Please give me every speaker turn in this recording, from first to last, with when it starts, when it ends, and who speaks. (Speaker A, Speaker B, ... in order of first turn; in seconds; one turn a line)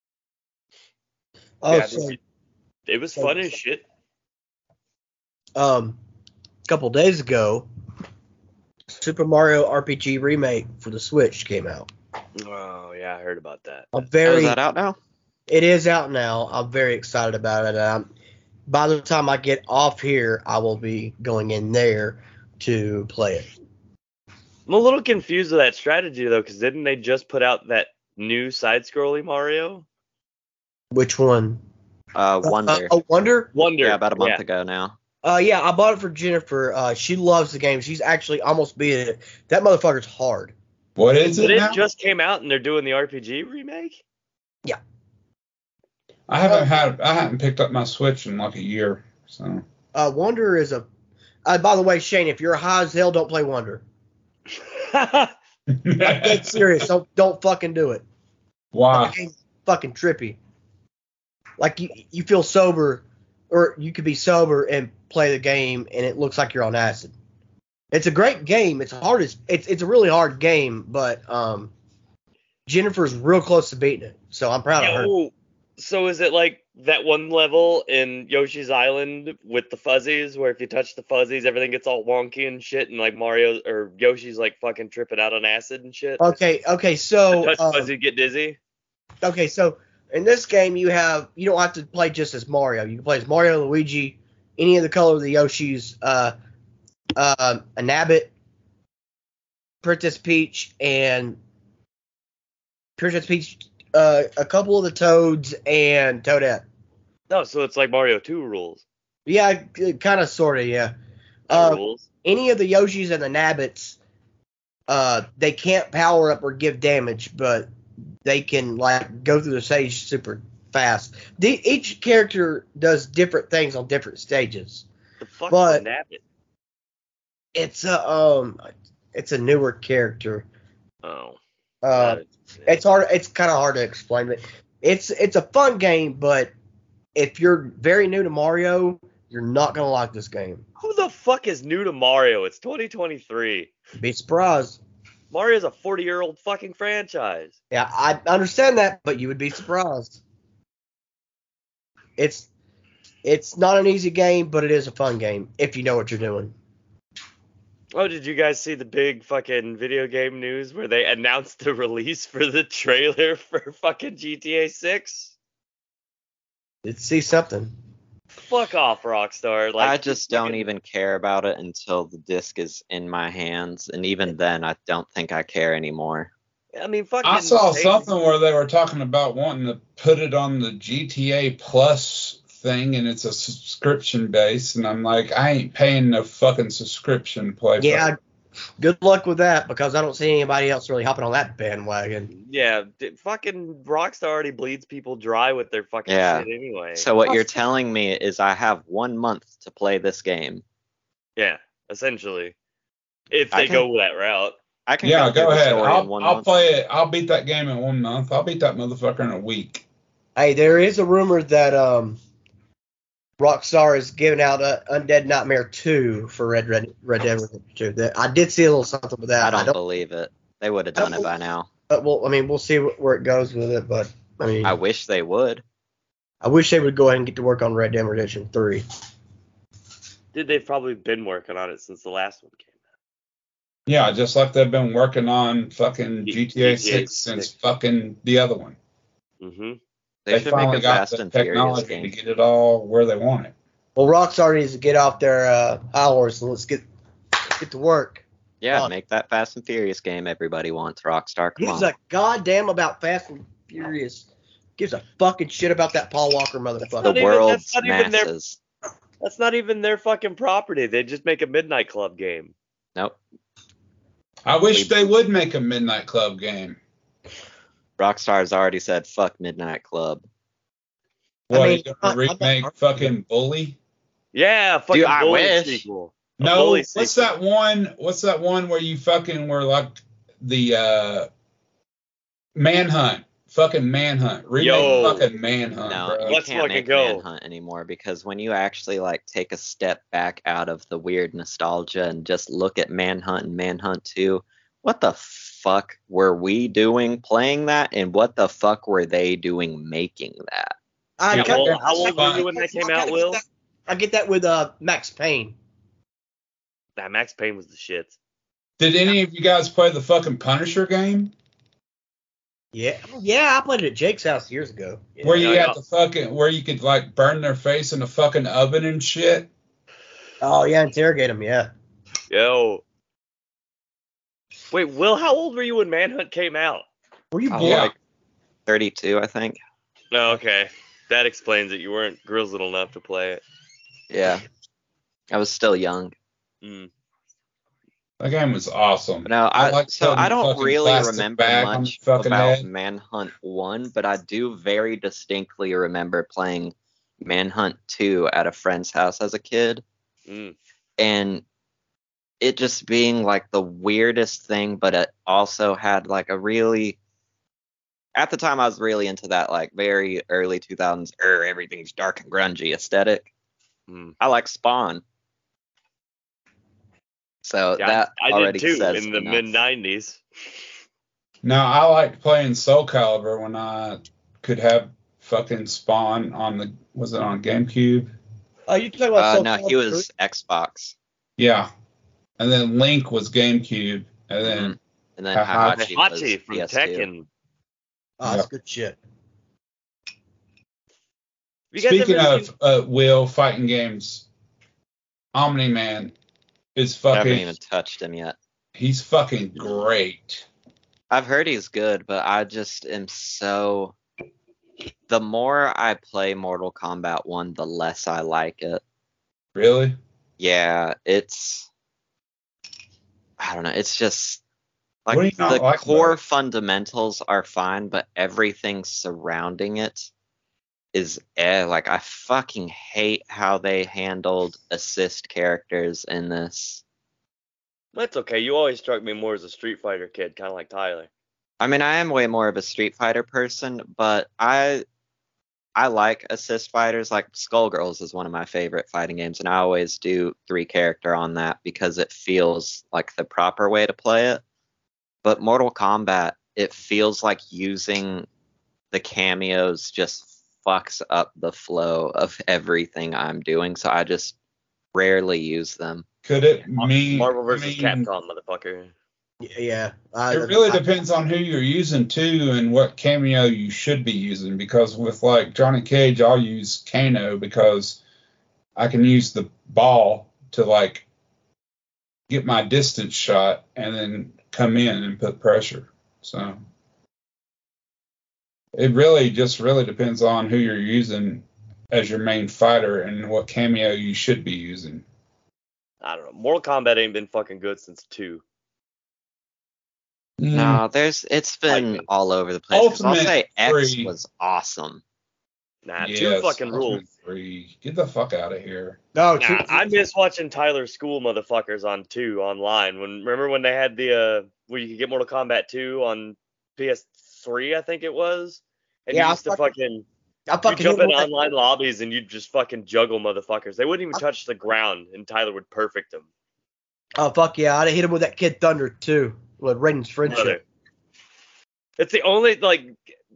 Speaker A: 1.6-2.2
Speaker B: 1.7-2.2
Speaker B: 2.9-3.8
Speaker A: 3.2-3.5
Speaker A: 5.5-6.0
Speaker A: 6.7-7.7
Speaker A: 8.9-11.9
Speaker B: 12.4-13.9
Speaker A: 13.9-14.6
Speaker C: 14.2-15.0
Speaker A: 15.5-18.1
Speaker A: 18.7-23.5
Speaker B: 24.7-29.9
Speaker A: 30.9-31.6
Speaker C: 32.1-32.9
Speaker A: 32.4-33.5
Speaker B: 33.5-34.4
Speaker C: 33.7-35.0
Speaker A: 35.2-40.5
Speaker D: 41.0-41.8
Speaker B: 41.4-44.0
Speaker D: 46.3-49.6
Speaker A: 49.9-50.9
Speaker A: 51.4-53.8
Speaker B: 54.5-55.3
Speaker D: 55.7-56.6
Speaker A: 56.0-58.0
Speaker D: 58.7-59.1
Speaker A: 58.9-60.4
Speaker A: 61.6-67.1
Speaker A: 67.9-71.7
Speaker A: 72.7-75.1
Speaker B: 74.8-86.4
Speaker A: 86.2-87.9
Speaker B: 87.3-88.6
Speaker A: 89.2-96.3
Speaker A: 97.2-98.3
Speaker A: 99.8-101.4
Speaker A: 103.0-106.6
Speaker B: 107.3-108.8
Speaker A: 109.2-110.9
Speaker A: 111.5-114.0
Speaker B: 111.5-112.0
Speaker A: 114.9-117.7
Speaker A: 118.2-124.8
Speaker B: 125.2-126.2
Speaker A: 125.5-125.8
Speaker A: 127.5-130.4
Speaker B: 131.0-131.4
Speaker A: 131.8-136.5
Speaker B: 131.9-132.8
Speaker A: 137.2-140.6
Speaker B: 140.8-143.7
Speaker A: 144.0-144.8
Speaker B: 145.3-147.5
Speaker A: 147.7-150.2
Speaker A: 152.2-152.5
Speaker A: 153.2-156.5
Speaker B: 157.9-165.3
Speaker A: 166.8-167.7
Speaker B: 168.4-170.6
Speaker C: 169.8-176.3
Speaker B: 176.7-178.1
Speaker D: 177.2-188.1
Speaker A: 187.8-188.2
Speaker A: 188.8-192.3
Speaker B: 192.3-197.1
Speaker C: 196.1-200.6
Speaker A: 197.2-197.5
Speaker B: 201.4-202.5
Speaker B: 203.3-204.6
Speaker C: 203.5-203.8
Speaker C: 204.9-206.4
Speaker D: 205.0-209.8
Speaker A: 210.3-212.2
Speaker A: 213.4-219.8
Speaker C: 219.4-221.7
Speaker A: 220.9-221.3
Speaker A: 221.9-224.8
Speaker C: 224.6-225.6
Speaker A: 226.4-228.8
Speaker B: 230.3-232.7
Speaker D: 233.9-238.8
Speaker B: 236.2-237.5
Speaker B: 239.4-239.8
Speaker C: 240.2-242.1
Speaker D: 240.3-243.5
Speaker A: 243.9-246.8
Speaker A: 247.6-248.9
Speaker C: 248.6-251.9
Speaker A: 251.6-254.3
Speaker A: 254.8-257.2
Speaker B: 256.9-258.3
Speaker C: 257.0-258.6
Speaker B: 259.2-262.5
Speaker D: 264.4-266.8
Speaker C: 268.0-270.2
Speaker D: 271.5-273.8
Speaker A: 271.5-272.7
Speaker B: 274.3-277.3
Speaker C: 274.9-275.8
Speaker D: 276.4-281.3
Speaker D: 282.5-286.4
Speaker B: 284.6-285.3
Speaker C: 285.8-300.8
Speaker B: 286.2-287.2
Speaker A: 301.2-305.5
Speaker D: 301.3-302.4
Speaker B: 301.3-303.4
Speaker B: 307.0-308.1
Speaker D: 308.8-311.3
Speaker A: 312.7-315.4
Speaker D: 315.2-319.5
Speaker B: 315.3-315.8
Speaker A: 320.4-321.7
Speaker B: 322.3-322.8
Speaker B: 324.7-326.9
Speaker A: 327.3-327.8
Speaker C: 327.5-327.9
Speaker D: 327.5-327.9
Speaker C: 328.7-329.6
Speaker B: 330.1-333.4
Speaker C: 334.1-334.4
Speaker C: 335.3-336.1
Speaker B: 336.6-336.9
Speaker D: 338.2-342.7
Speaker C: 339.2-349.8
Speaker B: 350.3-350.6
Speaker C: 351.0-351.4
Speaker C: 352.4-357.0
Speaker C: 358.1-363.3
Speaker B: 363.9-364.1
Speaker C: 364.2-365.0
Speaker C: 367.4-369.5
Speaker B: 367.8-370.2
Speaker D: 371.4-378.1
Speaker A: 378.7-380.0
Speaker C: 379.1-380.9
Speaker D: 381.4-381.7
Speaker D: 382.4-384.8
Speaker C: 384.4-387.1
Speaker D: 385.3-385.9
Speaker B: 385.7-387.3
Speaker A: 388.2-389.0
Speaker B: 391.7-392.5
Speaker D: 391.8-394.2
Speaker D: 395.3-396.1
Speaker D: 396.7-397.5
Speaker C: 397.1-398.4
Speaker D: 398.7-400.5
Speaker C: 401.1-403.9
Speaker C: 405.1-408.8
Speaker D: 409.5-410.0
Speaker C: 410.4-411.7
Speaker C: 413.4-414.4
Speaker C: 415.1-420.1
Speaker D: 415.1-416.2
Speaker C: 420.9-426.8
Speaker B: 427.9-431.1
Speaker C: 431.6-434.8
Speaker C: 435.8-444.4
Speaker C: 445.2-448.3
Speaker C: 448.9-454.4
Speaker C: 454.9-456.1
Speaker D: 456.2-458.1
Speaker B: 456.7-458.9
Speaker A: 459.4-460.8
Speaker D: 460.3-468.0
Speaker D: 468.8-471.0
Speaker D: 472.3-476.6
Speaker D: 478.7-485.0
Speaker B: 486.0-488.4
Speaker D: 490.4-490.8
Speaker C: 490.5-495.0
Speaker B: 491.7-492.1
Speaker D: 492.7-494.1
Speaker B: 495.8-497.0
Speaker D: 496.0-499.0
Speaker A: 499.1-499.9
Speaker B: 499.4-510.0
Speaker A: 509.1-509.7
Speaker A: 510.5-511.5
Speaker B: 510.6-516.3
Speaker A: 517.2-520.6
Speaker B: 520.3-520.6
Speaker B: 522.0-523.0